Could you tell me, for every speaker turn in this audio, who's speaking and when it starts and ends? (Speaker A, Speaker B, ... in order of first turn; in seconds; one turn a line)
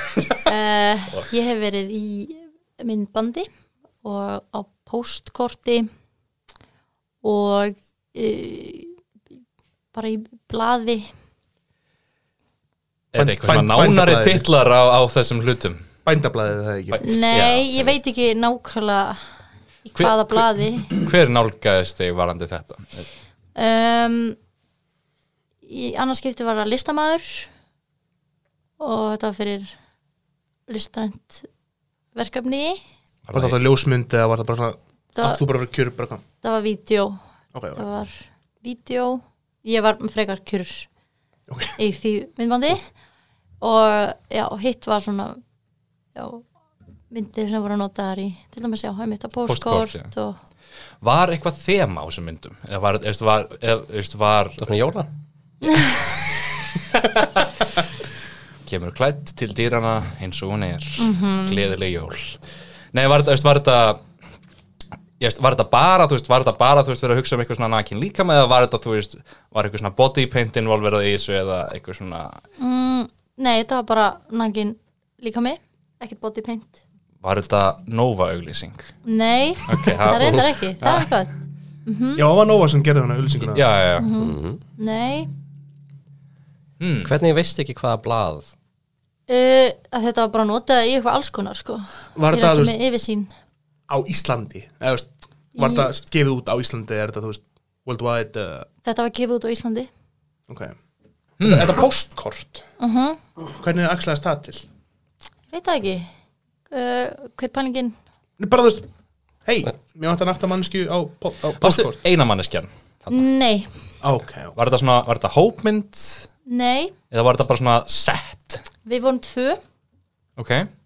Speaker A: 0.5-3.5
Speaker A: 4.0-5.9
Speaker A: 7.2-9.0
Speaker A: 9.9-11.1
Speaker B: 13.1-15.9
Speaker C: 13.2-14.5
Speaker C: 16.1-17.0
Speaker B: 16.9-17.5
Speaker A: 17.0-19.2
Speaker D: 17.3-17.9
Speaker A: 19.9-20.9
Speaker B: 20.0-23.1
Speaker A: 23.6-24.4
Speaker A: 25.6-27.5
Speaker A: 28.8-29.7
Speaker A: 30.7-31.5
Speaker A: 32.1-32.8
Speaker B: 33.3-33.6
Speaker C: 33.3-36.2
Speaker A: 35.2-35.4
Speaker A: 36.4-37.2
Speaker C: 37.5-37.9
Speaker A: 37.8-40.9
Speaker C: 41.5-41.8
Speaker A: 41.8-42.8
Speaker A: 43.6-45.4
Speaker A: 46.1-46.5
Speaker A: 47.1-50.4
Speaker B: 49.5-50.1
Speaker B: 51.0-54.7
Speaker D: 54.6-55.1
Speaker B: 55.7-56.1
Speaker B: 56.9-57.5
Speaker B: 58.7-62.4
Speaker A: 61.0-61.6
Speaker B: 62.9-64.0
Speaker B: 65.2-72.4
Speaker A: 72.6-76.8
Speaker B: 77.2-78.9
Speaker A: 79.0-81.3
Speaker B: 79.7-81.1
Speaker A: 81.9-82.2
Speaker C: 82.2-83.7
Speaker B: 83.5-84.1
Speaker A: 84.0-85.3
Speaker D: 84.2-84.6
Speaker B: 86.8-87.1
Speaker D: 87.0-88.5
Speaker A: 89.3-93.3
Speaker C: 92.2-92.7
Speaker C: 93.9-98.7
Speaker A: 95.6-95.9
Speaker A: 98.8-99.9
Speaker C: 100.5-100.8
Speaker B: 101.4-101.8
Speaker C: 101.4-102.6
Speaker A: 102.8-103.2
Speaker C: 103.6-104.7
Speaker A: 105.5-106.1
Speaker A: 106.7-108.0
Speaker C: 108.4-108.9
Speaker C: 109.5-112.0
Speaker B: 111.6-113.2
Speaker A: 113.1-113.7
Speaker C: 114.0-114.5
Speaker B: 114.5-116.3
Speaker A: 116.5-116.9
Speaker B: 117.1-118.7
Speaker A: 118.8-119.6
Speaker B: 120.4-120.7